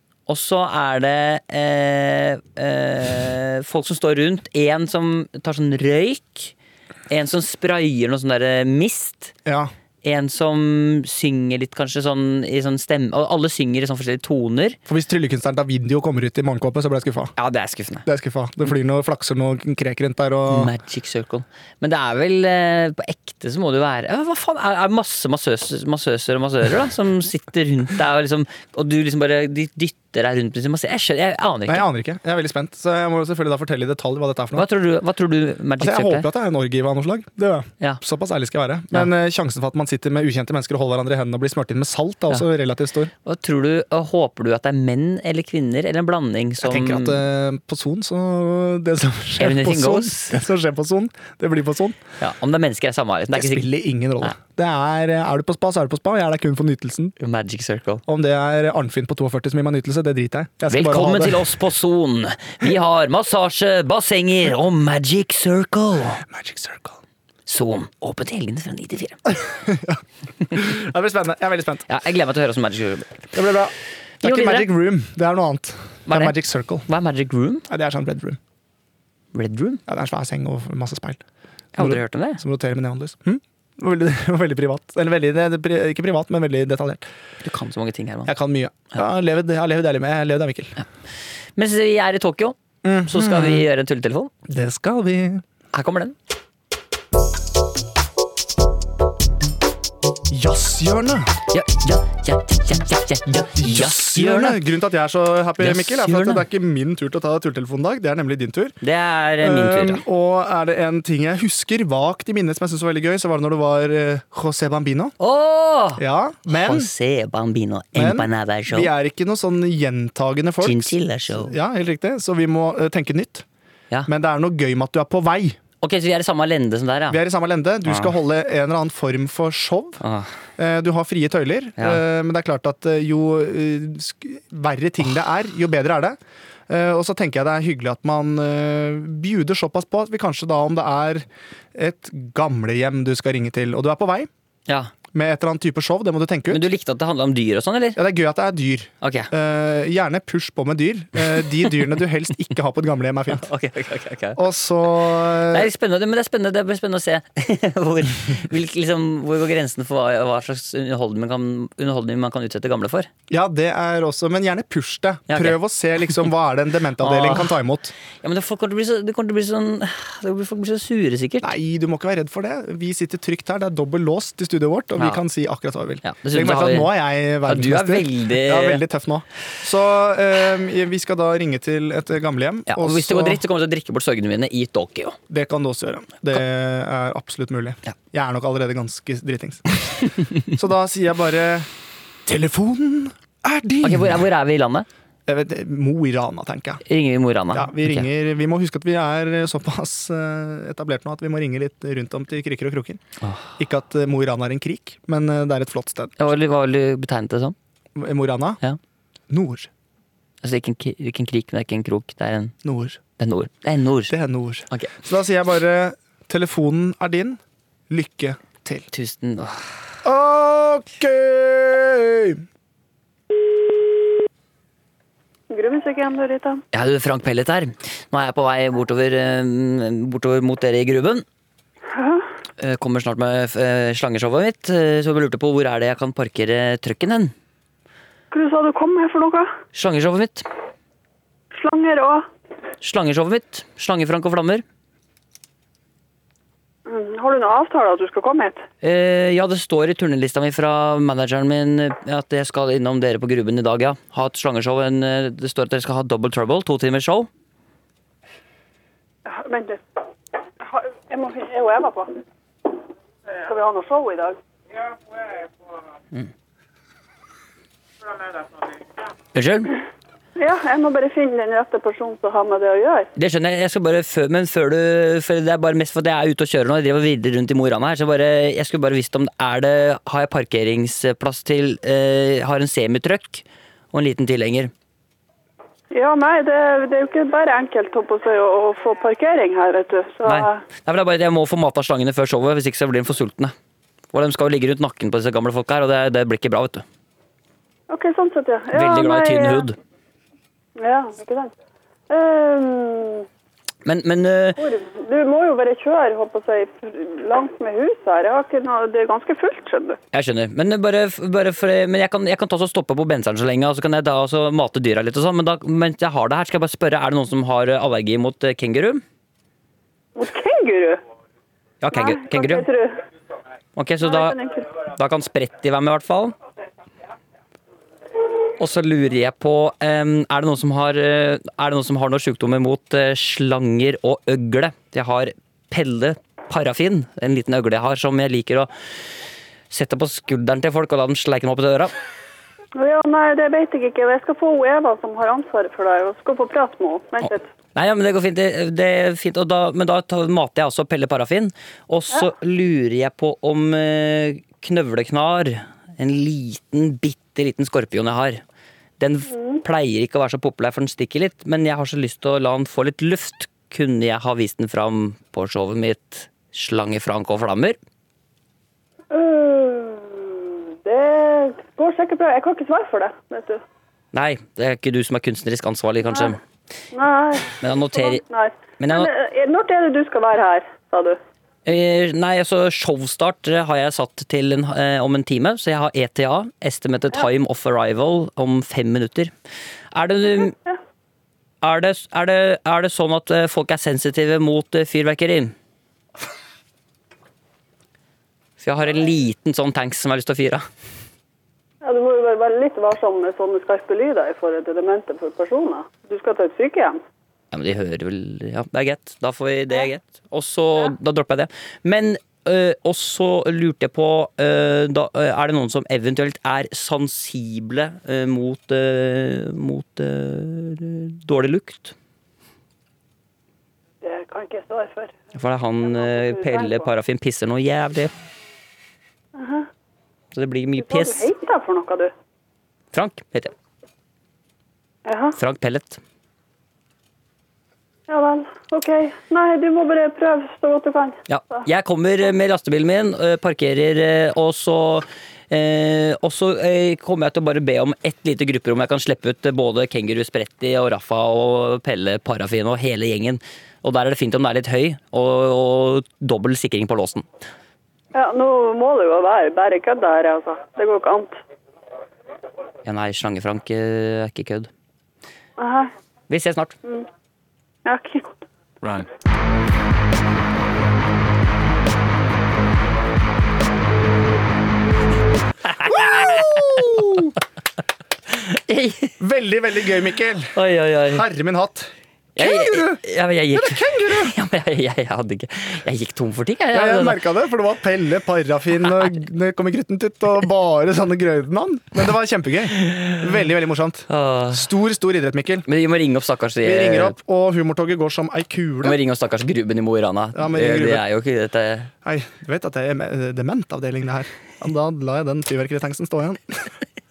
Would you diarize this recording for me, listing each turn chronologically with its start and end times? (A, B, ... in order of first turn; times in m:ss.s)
0:00.3-0:06.5 A
0:07.1-0:09.3 A
0:09.4-0:09.7 B
0:10.0-0:14.8 A
0:14.8-0:17.3 B
0:17.4-0:18.0 A
0:18.0-0:20.7 B
0:20.5-0:31.8 A
0:31.7-0:34.6 B
0:34.5-0:36.3 A
0:35.8-0:43.1 B
0:43.2-0:47.2 A
0:46.6-0:52.0 B
0:49.4-0:50.4 A
0:52.2-0:53.7 A
0:53.3-0:57.2 B
0:57.2-0:58.0 A
0:58.0-1:01.5 B
1:00.7-1:06.2 A
1:06.2-1:07.0 B
1:07.4-1:09.2 A
1:09.3-1:11.8 B
1:11.9-1:13.3 A
1:13.3-1:16.9 B
1:14.2-1:14.7 A
1:16.1-1:17.6 A
1:17.7-1:18.4 B
1:19.3-1:19.8 A
1:19.9-1:21.2 B
1:21.7-1:22.4 A
1:21.8-1:27.0 B
1:27.4-1:28.3 A
1:28.2-1:30.7 B
1:31.6-1:34.3 A
1:32.8-1:33.6 B
1:34.5-1:35.4 B
1:35.7-1:36.1 A
1:40.3-1:41.3 B
1:41.5-1:44.6 A
1:43.5-1:48.8 B
1:45.6-1:46.4 A
1:48.8-1:50.0 A
1:49.4-1:55.1 B
1:55.2-1:58.9 A
1:56.0-1:56.9 B
1:57.9-2:03.4 B
2:00.6-2:01.5 A
2:04.0-2:05.6 B
2:05.8-2:07.2 A
2:07.1-2:10.0 B
2:07.8-2:08.1 A
2:10.0-2:10.3 A
2:10.6-2:24.3 B
2:24.7-2:24.9 A
2:25.1-2:26.7 B
2:26.5-2:28.0 A
2:28.0-2:33.5 B
2:29.0-2:29.3 A
2:33.3-2:34.4 A
2:34.3-2:35.7 B
2:35.5-2:43.1 A
2:43.3-2:47.9 B
2:45.3-2:45.6 A
2:47.0-2:47.6 A
2:48.2-2:51.5 A
2:51.4-3:03.4 B
2:56.0-2:56.9 A
2:57.4-2:58.8 A
3:02.7-3:05.2 A
3:05.3-3:11.7 B
3:12.2-3:14.2 B
3:13.8-3:14.9 A
3:15.2-3:16.8 B
3:16.8-3:18.0 A
3:17.5-3:23.0 B
3:23.2-3:23.5 A
3:23.6-3:26.1 B
3:26.2-3:27.5 A
3:27.9-3:28.6 B
3:29.3-3:29.7 B
3:30.4-3:32.5 A
3:32.6-3:33.0 B
3:33.2-3:34.1 A
3:34.1-3:38.9 B
3:38.9-3:39.7 A
3:40.0-3:42.4 B
3:45.5-3:46.6 C
3:46.7-3:51.2 A
3:51.9-3:52.2 C
3:52.6-3:57.3 A
3:58.3-3:59.5 C
3:59.7-4:00.5 A
4:01.5-4:02.2 C
4:02.8-4:04.6 A
4:06.8-4:08.6 C
4:08.8-4:17.3 A
4:19.2-4:19.8 C
4:20.6-4:22.2 C
4:23.4-4:24.4 C
4:29.3-4:29.7 A
4:30.4-4:33.1 C
4:33.2-4:44.7 A
4:45.9-4:50.6 C
4:50.2-4:53.5 A
4:54.1-4:56.8 A
4:57.9-4:59.7 C
4:58.7-4:59.8 A
5:00.8-5:01.5 C
5:02.1-5:03.2 C
5:03.8-5:04.6 A
5:04.6-5:10.0 C
5:10.1-5:19.0 A
5:20.2-5:21.0 C
5:21.8-5:22.6 A
5:21.9-5:23.0 C
5:23.8-5:26.3 A
5:24.0-5:24.7 C
5:28.6-5:38.7 A
5:39.7-5:41.9 A
5:42.8-5:47.5 C
5:47.2-5:58.4 A
5:59.0-6:07.8 A
5:59.3-5:59.6 C
6:09.1-6:13.6 C
6:14.1-6:16.4 A
6:16.1-6:16.3 C
6:16.9-6:21.2 C
6:17.6-6:18.2 A
6:18.8-6:19.1 A
6:21.6-6:29.3 A
6:29.9-6:30.5 A
6:30.4-6:30.8 C
6:31.6-6:35.5 A
6:38.6-6:40.6 A
6:41.8-6:47.0 C
6:47.5-7:01.9 A
7:04.0-7:05.1 C
7:05.3-7:08.1 A
7:05.9-7:06.9 C
7:09.4-7:09.7 C
7:10.3-7:11.3 A
7:10.8-7:12.1 C
7:12.9-7:13.5 A
7:15.0-7:15.4 C
7:15.4-7:16.0 A
7:18.1-7:21.6 C
7:21.3-7:37.2 A
7:38.1-7:41.4 C
7:42.8-7:44.7 A
7:45.6-7:45.9 C
7:46.3-7:46.7 A
7:47.8-7:48.3 C
7:55.7-7:56.8 A
7:55.8-7:57.3 B
7:58.5-7:59.2 A
7:59.2-8:04.3 B
8:00.5-8:01.2 A
8:02.4-8:07.2 A
8:06.7-8:15.6 B
8:12.8-8:13.2 A
8:14.1-8:14.7 A
8:15.7-8:17.2 A
8:16.6-8:19.0 B
8:18.8-8:21.9 A
8:20.3-8:21.0 B
8:22.0-8:26.7 B